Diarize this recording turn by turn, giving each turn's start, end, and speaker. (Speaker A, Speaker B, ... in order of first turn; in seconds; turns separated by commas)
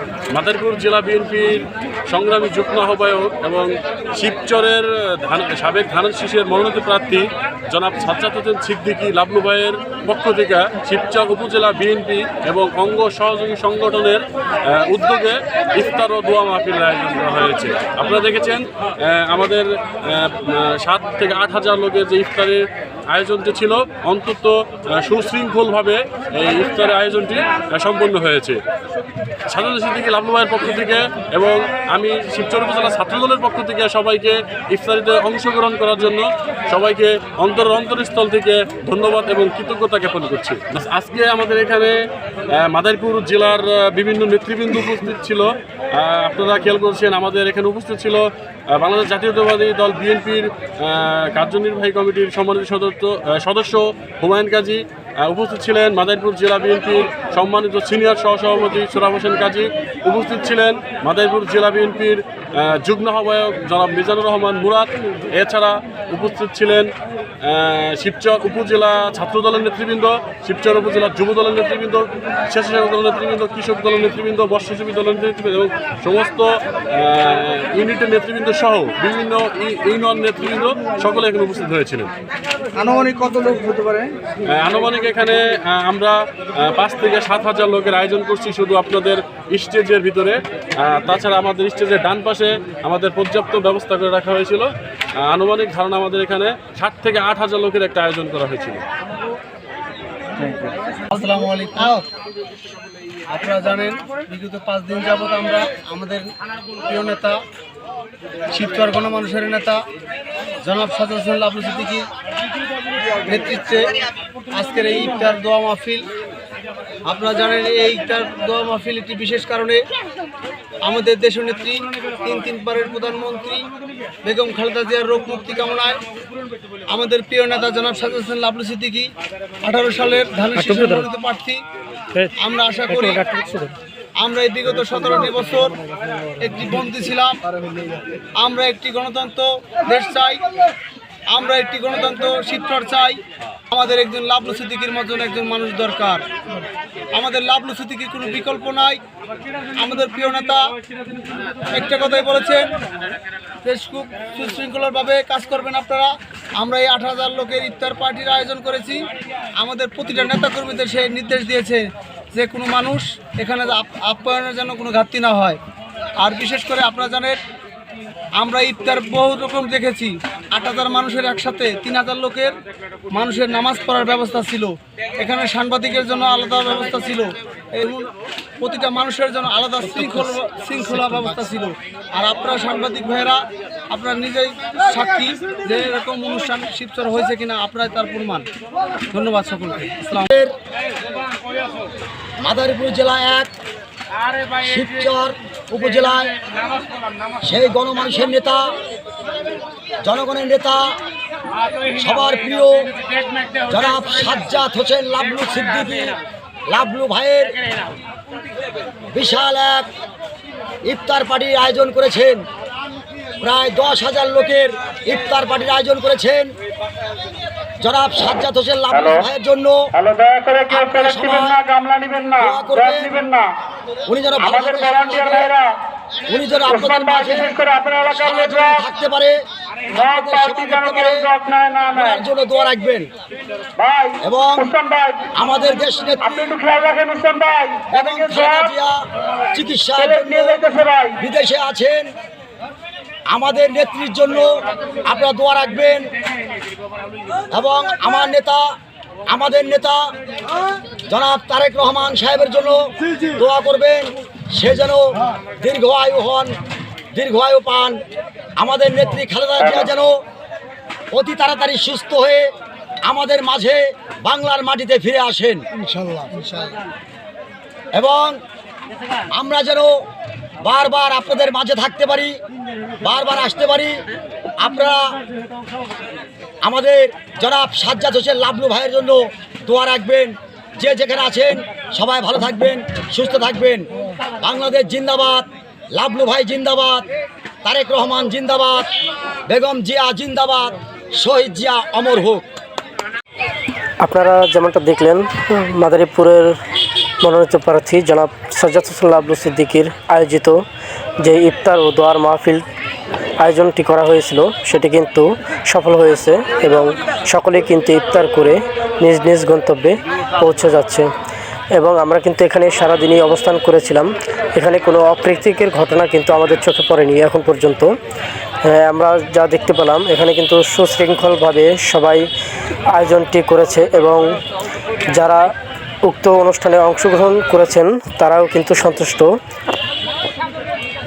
Speaker A: 0.3-14.2, Speaker A: 14.7-28.6, Speaker A: 29.5-41.9, Speaker A: 42.6-48.2, Speaker A: 48.7-66.9, Speaker A: 67.4-82.1, Speaker B: 82.7-84.1, Speaker A: 84.5-94.7, Speaker A: 95.2-98.8, Speaker B: 100.4-102.0, Speaker B: 103.3-106.3, Speaker B: 106.8-107.4, Speaker B: 108.5-109.8, Speaker B: 110.6-112.1, Speaker B: 113.2-114.0, Speaker B: 114.5-116.1, Speaker B: 117.0-119.8, Speaker B: 120.8-123.7, Speaker B: 124.2-126.0, Speaker B: 126.9-129.1, Speaker B: 129.6-131.6, Speaker B: 132.3-135.8, Speaker B: 136.4-137.4, Speaker B: 138.4-140.4, Speaker B: 141.3-146.2, Speaker B: 147.1-149.0, Speaker B: 149.8-150.7, Speaker B: 151.7-152.7, Speaker B: 153.6-159.0, Speaker B: 159.6-165.6, Speaker B: 166.2-167.4, Speaker B: 168.4-172.6, Speaker B: 173.1-188.5, Speaker B: 189.1-190.3, Speaker C: 190.3-190.5, Speaker C: 192.4-193.5, Speaker C: 194.5-196.4, Speaker C: 197.4-198.7, Speaker C: 200.0-200.9, Speaker C: 201.9-202.9, Speaker C: 203.7-206.2, Speaker C: 206.7-207.6, Speaker C: 209.1-209.9, Speaker C: 210.9-212.4, Speaker C: 213.4-216.5, Speaker C: 217.8-219.9, Speaker D: 218.9-219.2, Speaker D: 220.0-223.4, Speaker C: 220.7-221.7, Speaker C: 222.3-223.2, Speaker C: 224.1-225.6, Speaker D: 224.4-225.6, Speaker C: 226.3-229.4, Speaker D: 226.6-228.8, Speaker C: 229.9-231.3, Speaker D: 229.9-232.2, Speaker C: 231.9-233.1, Speaker D: 233.8-235.2, Speaker C: 234.2-234.7, Speaker C: 235.3-236.6, Speaker D: 236.3-238.7, Speaker C: 237.9-242.1, Speaker D: 240.0-241.1, Speaker C: 243.3-244.5, Speaker C: 245.0-246.1, Speaker C: 247.5-248.7, Speaker C: 249.3-250.1, Speaker C: 251.1-256.6, Speaker C: 257.1-258.0, Speaker C: 258.6-260.2, Speaker C: 261.1-262.5, Speaker C: 263.1-265.6, Speaker C: 267.9-268.4, Speaker C: 269.3-270.1, Speaker C: 270.6-272.4, Speaker C: 273.0-274.0, Speaker C: 274.6-275.1, Speaker C: 276.6-283.9, Speaker C: 284.4-287.1, Speaker C: 287.6-288.9, Speaker C: 289.5-292.4, Speaker E: 294.0-296.5, Speaker E: 297.2-300.6, Speaker E: 301.2-302.6, Speaker E: 303.4-311.1, Speaker E: 311.8-317.9, Speaker E: 318.6-322.3, Speaker E: 322.9-324.4, Speaker E: 325.1-325.4, Speaker E: 326.0-329.3